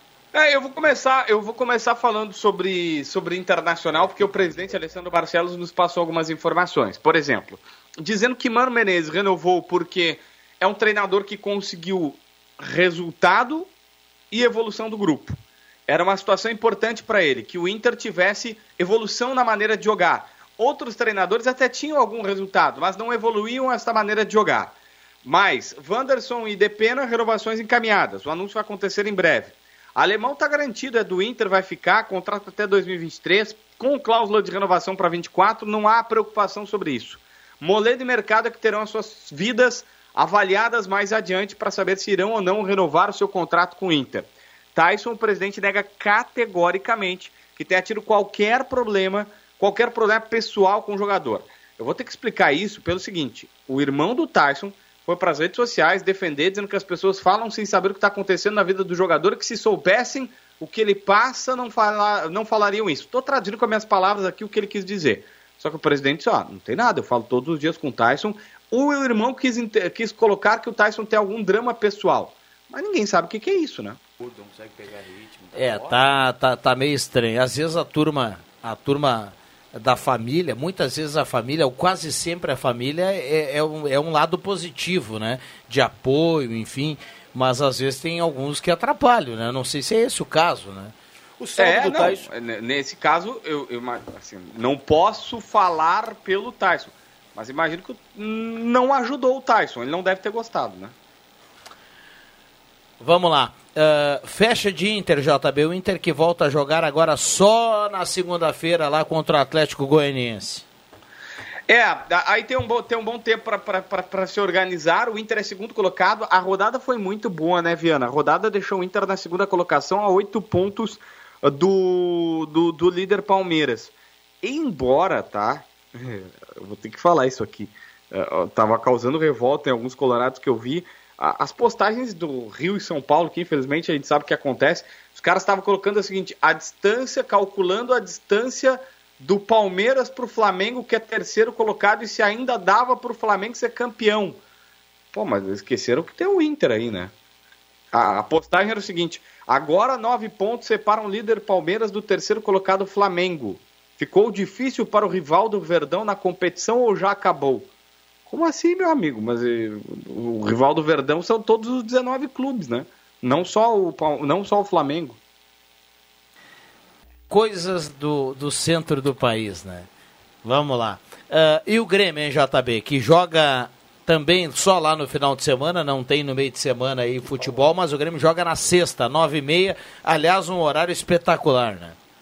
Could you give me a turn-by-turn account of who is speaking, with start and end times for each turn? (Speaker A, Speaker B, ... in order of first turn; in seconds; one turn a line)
Speaker A: 0.3-13.7
Speaker A: 14.3-74.0
Speaker B: 74.2-76.2
Speaker C: 75.5-90.9
Speaker B: 91.4-92.3
Speaker A: 91.6-100.9
Speaker C: 103.0-110.7
Speaker A: 111.7-144.4
Speaker A: 145.1-147.1
Speaker A: 147.9-157.7
Speaker A: 158.3-165.2
Speaker C: 167.3-169.9
Speaker C: 170.4-181.9